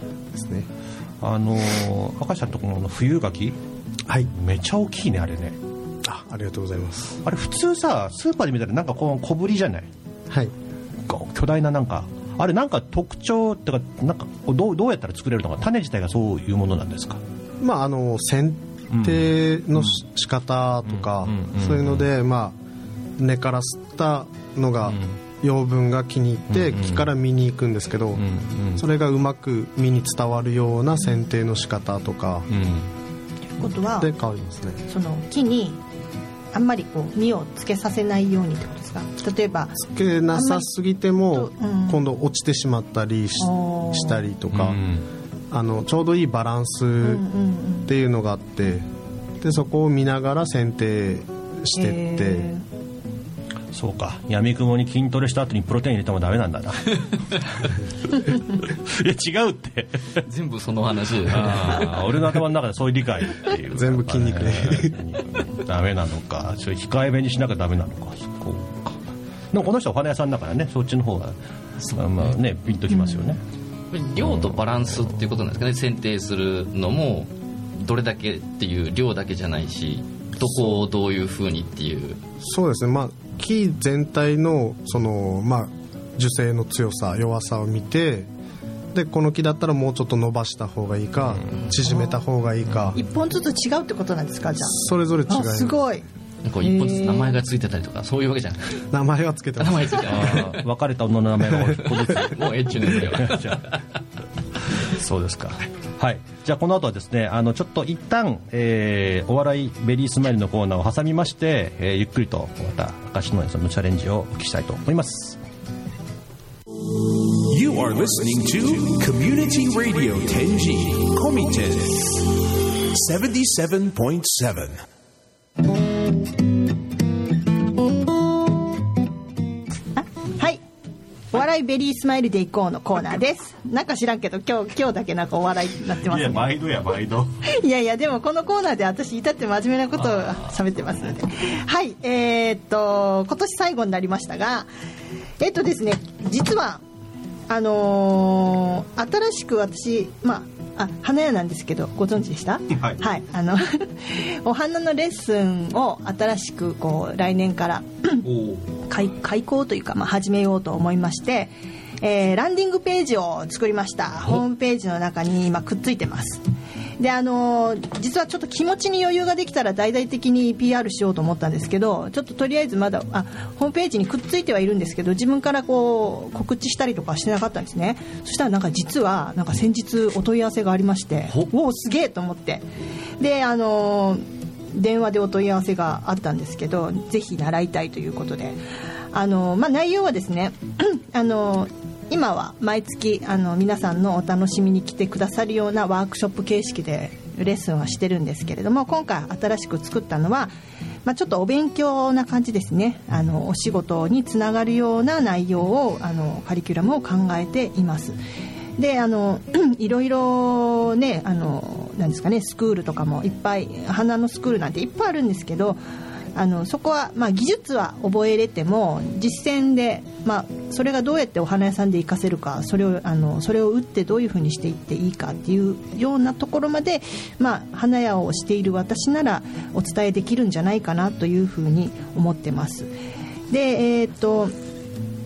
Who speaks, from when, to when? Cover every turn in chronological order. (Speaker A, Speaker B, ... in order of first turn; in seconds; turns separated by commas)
Speaker A: 0.3-0.7, Speaker B: 1.2-3.6, Speaker B: 4.3-5.6, Speaker A: 6.0-7.2, Speaker B: 7.2-9.9, Speaker B: 11.1-17.2, Speaker A: 17.6-22.6, Speaker B: 18.9-19.9, Speaker B: 20.9-22.1, Speaker A: 23.2-28.2, Speaker B: 24.9-25.1, Speaker B: 26.5-27.1, Speaker B: 28.2-28.8, Speaker A: 28.8-32.5, Speaker B: 32.5-32.9, Speaker C: 33.6-34.1, Speaker A: 34.0-34.8, Speaker C: 34.9-35.8, Speaker C: 36.5-40.7, Speaker A: 39.8-44.8, Speaker C: 41.3-42.0, Speaker C: 43.4-44.3, Speaker B: 44.5-45.1, Speaker A: 45.5-47.3, Speaker C: 47.0-47.9, Speaker A: 47.9-48.9, Speaker A: 49.4-52.5, Speaker C: 51.8-52.6, Speaker B: 53.7-57.0, Speaker B: 58.2-60.2, Speaker D: 60.2-62.1, Speaker B: 61.3-71.4, Speaker A: 63.7-65.0, Speaker B: 71.9-73.4, Speaker D: 73.9-82.2, Speaker B: 74.2-75.1, Speaker A: 82.4-88.3, Speaker A: 88.9-93.0, Speaker C: 91.8-92.2, Speaker C: 92.9-96.0, Speaker A: 94.6-95.8, Speaker D: 96.5-98.8, Speaker C: 96.6-97.3, Speaker A: 98.9-100.3, Speaker D: 99.6-100.6, Speaker B: 100.1-103.7, Speaker D: 101.8-103.8, Speaker B: 104.8-115.4, Speaker E: 117.5-124.8, Speaker C: 130.0-130.6, Speaker C: 131.3-136.6, Speaker B: 136.1-137.4, Speaker C: 137.4-144.7, Speaker C: 145.4-146.8, Speaker C: 147.5-158.3, Speaker B: 152.7-153.0, Speaker B: 158.2-158.9, Speaker C: 158.9-166.4, Speaker C: 167.0-188.6, Speaker C: 189.1-200.5, Speaker C: 201.1-208.2, Speaker C: 208.8-215.8, Speaker C: 216.3-232.9, Speaker C: 233.5-234.5